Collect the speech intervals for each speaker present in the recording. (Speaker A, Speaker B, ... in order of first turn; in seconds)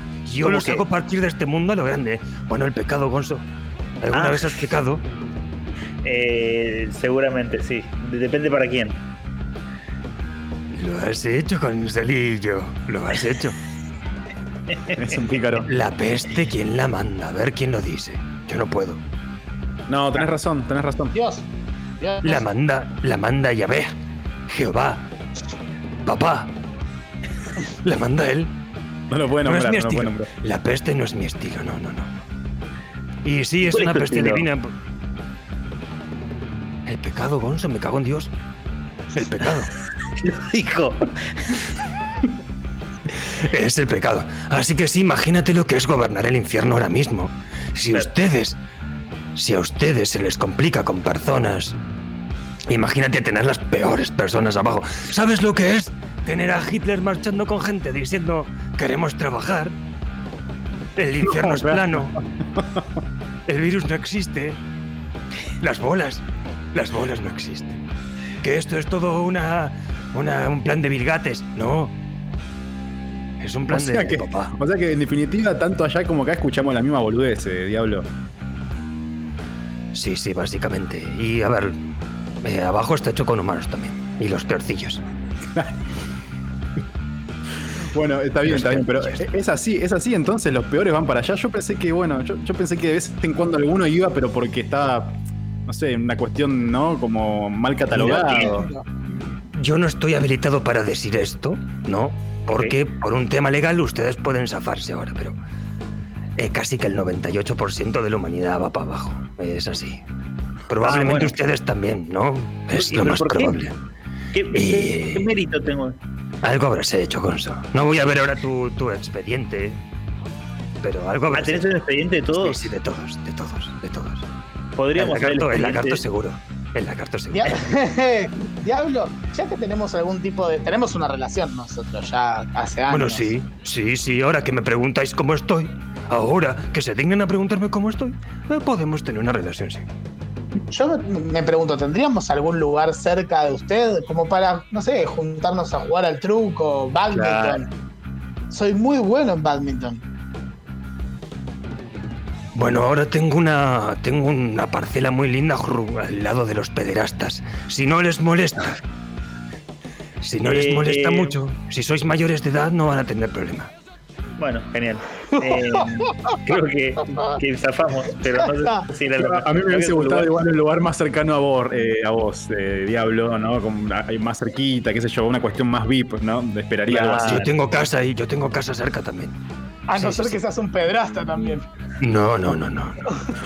Speaker A: 0.3-3.5, 4.0-5.0, 10.7-13.6, 15.6-19.0, 22.2-23.9, 24.5-25.1, 26.1-26.5, 27.8-28.5, 29.4-32.1, 33.2-34.7, 36.9-38.3, 39.1-39.7, 43.4-48.6, 49.4-51.8, 52.7-59.8, 61.0-62.2, 63.5-64.6, 65.6-67.8, 68.4-71.9, 73.4-74.5, 79.9-81.8, 82.4-85.0, 88.5-89.2, 97.9-98.3, 99.4-105.4, 106.4-110.0, 110.7-113.8, 114.5-115.3, 116.4-119.8, 120.8-121.8, 122.3-124.2, 124.9-127.5, 132.9-139.9, 147.1-147.6, 152.5-158.8, 160.2-163.7, 177.2-179.4, 179.9-180.4, 182.0-183.2
Speaker B: 0.4-0.8, 4.1-4.5, 6.0-9.0, 14.7-14.9, 33.6-34.5, 40.2-41.7, 98.3-98.6, 110.8-111.3, 112.8-113.7, 114.3-116.0, 121.3-122.7, 124.8-126.0, 160.4-161.4, 164.4-170.3, 176.9-177.5
Speaker C: 14.9-15.7, 19.9-21.2, 29.1-30.3, 61.2-62.8, 73.7-78.1, 87.9-98.7, 169.2-177.4
Speaker D: 21.1-21.5, 22.0-22.5, 98.1-98.8, 127.3-133.3, 140.7-147.7, 148.5-150.0, 165.3-166.4, 168.4-168.8, 179.9-181.7